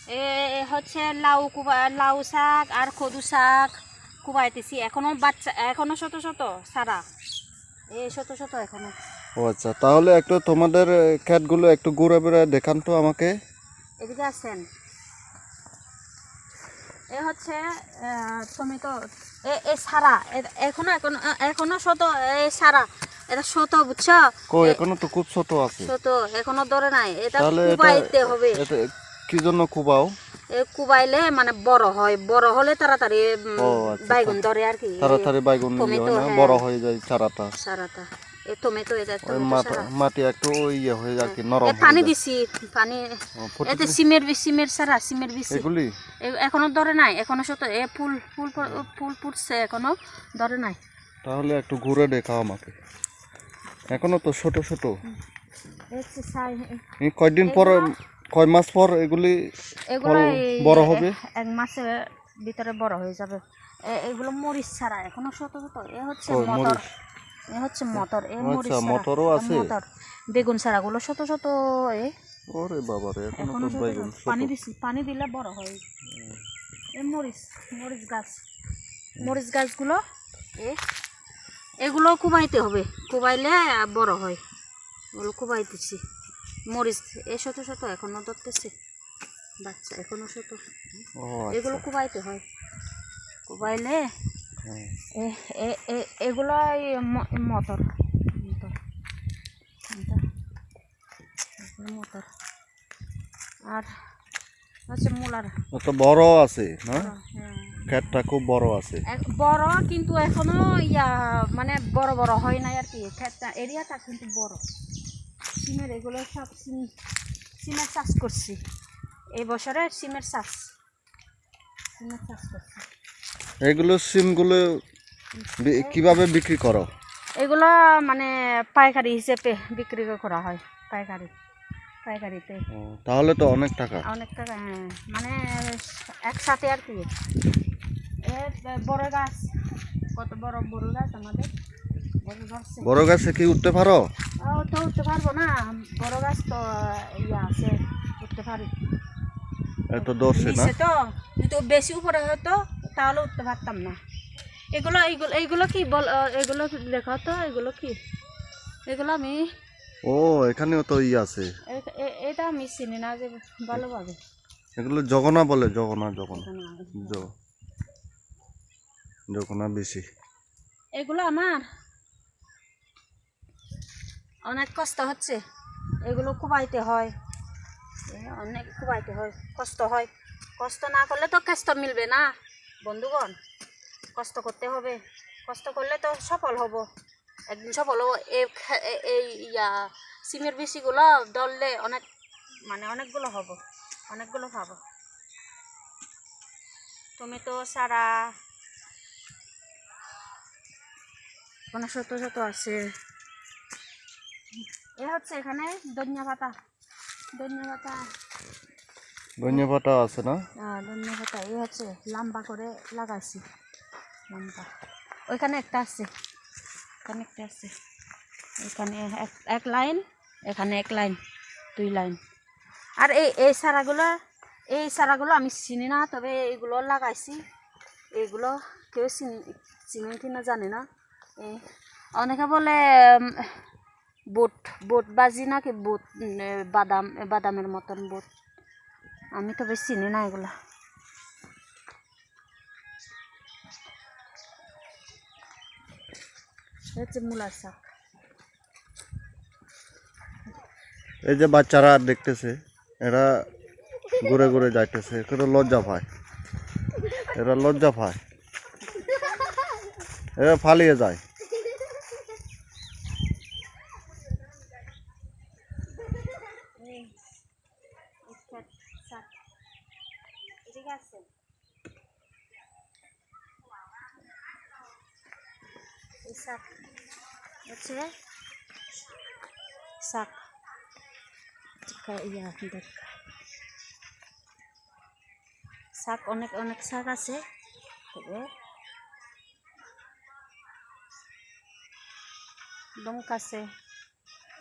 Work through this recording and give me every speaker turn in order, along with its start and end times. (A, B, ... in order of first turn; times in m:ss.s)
0:00.1-0:03.7 A
0:04.2-0:07.0 A
0:07.9-0:09.0 A
0:09.4-0:13.3 B
0:14.0-0:14.6 A
0:17.1-0:24.8 A
0:24.5-0:25.9 B
0:25.8-0:28.7 A
0:27.4-0:30.1 B
0:30.5-0:36.6 A
0:33.6-0:34.4 B
0:35.0-0:37.5 B
0:37.6-0:39.9 A
0:39.2-0:42.1 B
0:41.2-0:45.7 A
0:43.4-0:44.0 B
0:45.5-0:45.9 B
0:46.2-0:50.8 A
0:51.2-0:52.7 B
0:53.9-0:55.0 B
0:55.9-0:56.8 A
0:57.0-1:01.2 B
0:57.4-0:57.9 A
0:59.9-1:06.8 A
1:06.3-1:06.8 B
1:07.5-1:12.1 A
1:08.0-1:09.7 B
1:12.5-1:14.5 B
1:13.3-1:15.8 A
1:16.1-1:16.4 B
1:17.0-1:18.4 A
1:19.2-1:20.0 A
1:21.8-1:24.4 A
1:25.2-1:26.0 A
1:26.7-1:28.7 A
1:29.6-1:30.6 A
1:31.2-1:31.8 B
1:31.5-1:32.4 A
1:33.5-1:34.1 A
1:34.6-1:34.9 B
1:35.1-1:38.7 A
1:39.9-1:40.2 A
1:41.6-1:42.3 A
1:44.9-1:45.5 A
1:45.7-1:47.1 B
1:47.0-1:48.2 A
1:47.9-1:49.0 B
1:49.1-1:54.6 A
1:55.5-1:56.9 A
1:57.6-1:58.6 A
1:59.3-2:00.7 A
2:02.0-2:02.9 A
2:03.6-2:04.8 B
2:05.4-2:06.1 A
2:05.6-2:06.9 B
2:07.4-2:11.3 A
2:12.0-2:12.6 A
2:12.7-2:14.0 B
2:14.0-2:17.1 A
2:18.2-2:19.5 A
2:20.1-2:21.5 A
2:22.2-2:22.9 A
2:22.8-2:24.1 B
2:24.4-2:28.7 A
2:29.9-2:30.7 B
2:30.0-2:34.0 A
2:34.7-2:38.0 A
2:38.9-2:39.4 A
2:40.0-2:41.5 B
2:41.7-2:44.2 A
2:44.8-2:47.3 B
2:46.3-2:47.3 A
2:49.3-2:50.0 B
2:51.0-2:51.6 A
2:54.4-2:55.4 A
2:56.0-2:57.1 A
2:58.1-3:02.3 A
3:02.8-3:03.4 A
3:04.2-3:06.8 A
3:07.5-3:12.0 A
3:12.7-3:14.8 A
3:17.2-3:18.1 A
3:21.7-3:22.8 A
3:25.0-3:26.5 A
3:27.3-3:28.0 A
3:29.4-3:30.4 B
3:30.6-3:33.4 A
3:34.3-3:34.7 A
3:35.3-3:36.1 A
3:37.0-3:37.7 A
3:38.6-3:41.2 A
3:41.8-3:42.2 A
3:43.0-3:44.1 A
3:44.7-3:47.4 A
3:48.1-3:50.8 A
3:51.4-3:51.6 A
3:52.2-3:53.6 A
3:54.3-3:58.3 A
3:59.3-4:00.5 A
4:06.9-4:07.8 A
4:11.2-4:13.4 B
4:14.2-4:16.1 B
4:17.2-4:18.2 B
4:18.9-4:19.3 A
4:20.4-4:21.2 B
4:26.8-4:27.1 A
4:28.2-4:29.3 A
4:30.6-4:31.3 A
4:36.2-4:36.7 A
4:37.7-4:38.0 A
4:40.0-4:40.4 A
4:41.8-4:43.1 A
4:45.9-4:47.4 A
4:48.1-4:48.5 A
4:53.0-4:53.7 A